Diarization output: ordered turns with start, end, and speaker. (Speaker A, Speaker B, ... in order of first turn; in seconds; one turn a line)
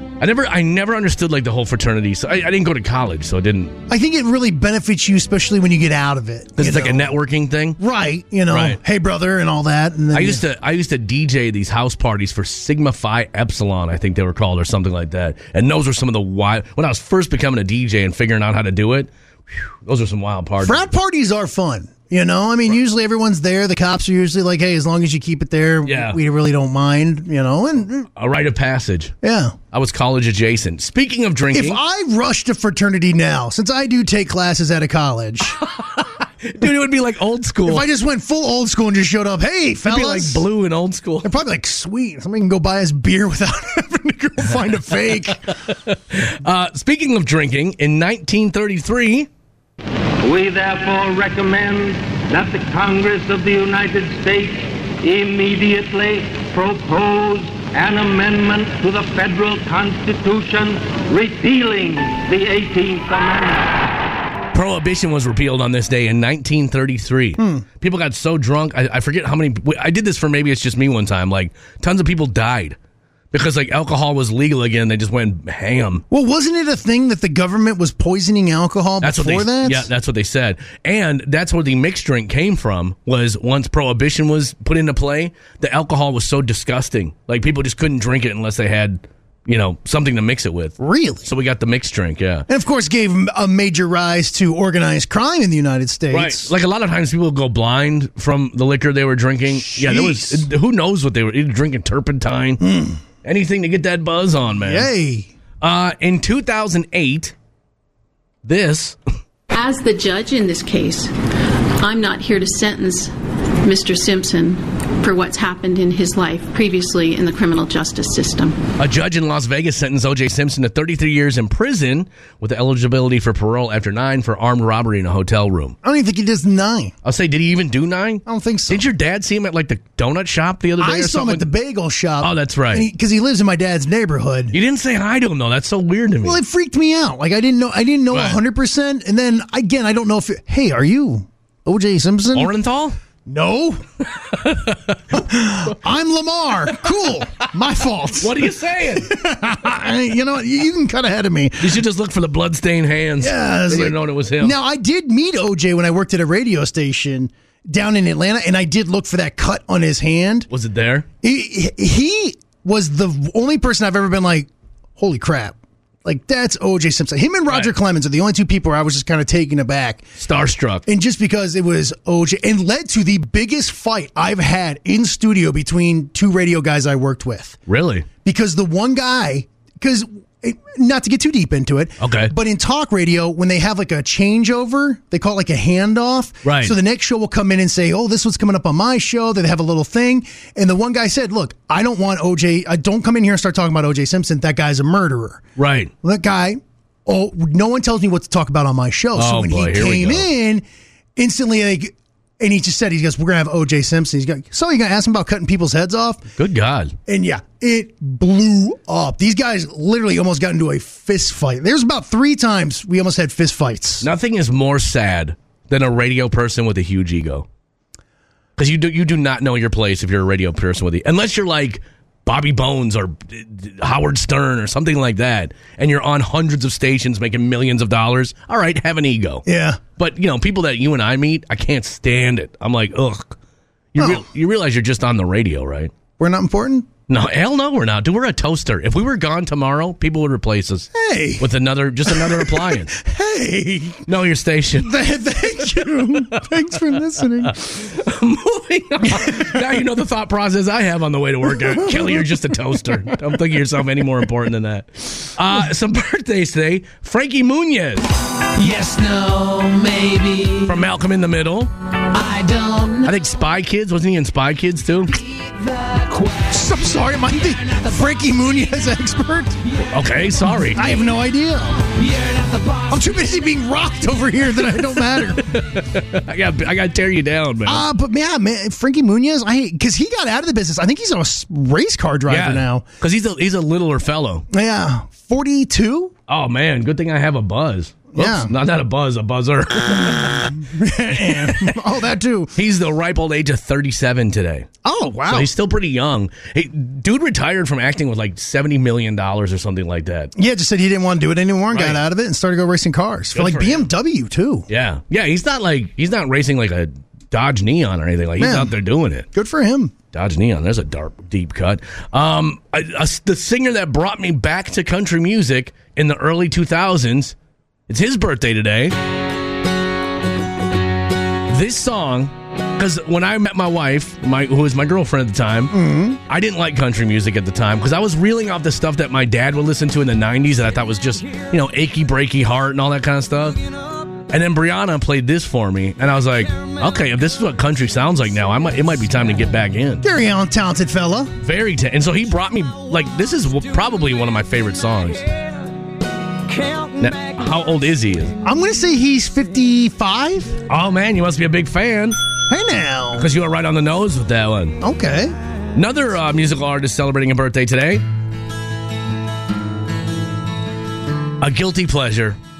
Speaker A: 0.2-3.8
Speaker B: 3.9-7.1
Speaker A: 6.6-7.8
Speaker B: 7.8-10.4
Speaker A: 8.5-8.8
Speaker A: 10.1-20.9
Speaker B: 20.6-28.1
Speaker A: 25.8-26.2
Speaker A: 28.2-29.1
Speaker B: 29.2-29.6
Speaker A: 29.7-31.8
Speaker B: 31.5-35.6
Speaker A: 35.6-37.9
Speaker B: 37.6-40.5
Speaker A: 39.9-41.3
Speaker B: 41.2-45.5
Speaker A: 45.5-49.3
Speaker C: 50.2-63.8
Speaker A: 64.5-72.8
Speaker B: 67.4-67.7
Speaker A: 73.3-76.0
Speaker B: 76.1-79.9
Speaker A: 79.0-92.5
Speaker B: 90.8-91.3
Speaker B: 92.5-96.5
Speaker A: 96.1-102.6
Speaker B: 99.5-100.5
Speaker B: 102.6-103.0
Speaker A: 103.2-104.9
Speaker B: 104.6-105.3
Speaker A: 105.6-107.3
Speaker A: 108.4-109.0
Speaker D: 109.5-111.1
Speaker D: 111.8-113.1
Speaker D: 113.6-118.6
Speaker A: 118.8-125.8
Speaker B: 125.8-127.0
Speaker A: 127.0-131.5
Speaker B: 128.3-128.9
Speaker B: 130.8-134.6
Speaker A: 132.2-132.9
Speaker A: 134.5-136.4
Speaker B: 136.2-142.5
Speaker A: 138.1-138.4
Speaker A: 142.3-143.0
Speaker B: 143.3-143.8
Speaker A: 144.2-145.7
Speaker B: 145.1-151.8
Speaker A: 148.2-149.1
Speaker A: 151.6-154.6
Speaker B: 153.2-160.5
Speaker A: 160.5-161.1
Speaker B: 161.2-170.1
Speaker A: 170.2-170.8
Speaker B: 170.9-177.6
Speaker A: 177.7-178.1
Speaker B: 178.2-195.4
Speaker A: 182.0-182.3
Speaker A: 186.4-186.8
Speaker A: 195.6-195.9
Speaker B: 196.0-200.7
Speaker A: 199.2-200.3
Speaker B: 201.2-206.2
Speaker A: 206.4-206.9
Speaker B: 207.1-214.1
Speaker A: 214.0-217.5
Speaker A: 218.6-229.5
Speaker B: 229.5-229.8
Speaker A: 230.0-233.4
Speaker A: 233.9-235.9
Speaker B: 234.0-234.2
Speaker B: 236.2-236.9
Speaker A: 237.1-242.9
Speaker B: 240.9-241.5
Speaker B: 242.1-244.0
Speaker A: 244.1-244.9
Speaker B: 244.8-247.6
Speaker A: 245.7-246.1
Speaker A: 247.5-258.1
Speaker B: 249.1-249.6
Speaker B: 251.5-253.1
Speaker A: 260.6-261.7
Speaker A: 263.0-265.2
Speaker B: 266.1-269.6
Speaker A: 269.8-271.0
Speaker B: 270.7-271.9
Speaker B: 272.8-275.4
Speaker A: 275.0-277.9
Speaker B: 277.6-282.9
Speaker A: 282.3-284.5
Speaker B: 284.5-286.1
Speaker A: 286.3-291.8
Speaker B: 288.1-288.5
Speaker B: 289.9-292.5
Speaker A: 292.6-294.7
Speaker B: 294.8-295.5
Speaker A: 295.3-300.3
Speaker B: 300.4-304.7
Speaker A: 301.7-302.0
Speaker A: 303.3-303.9
Speaker A: 304.7-309.3
Speaker B: 308.4-308.8
Speaker B: 309.3-309.9
Speaker A: 310.1-317.4
Speaker A: 317.9-318.9
Speaker A: 321.5-325.7
Speaker B: 325.7-326.2
Speaker A: 326.3-333.6
Speaker A: 334.3-340.0
Speaker B: 340.0-341.3
Speaker A: 341.4-345.2
Speaker A: 347.0-348.4
Speaker B: 348.4-350.6
Speaker A: 350.7-352.2
Speaker B: 352.5-353.3
Speaker A: 353.2-354.8
Speaker B: 354.8-355.4
Speaker A: 355.8-358.0
Speaker A: 361.4-362.4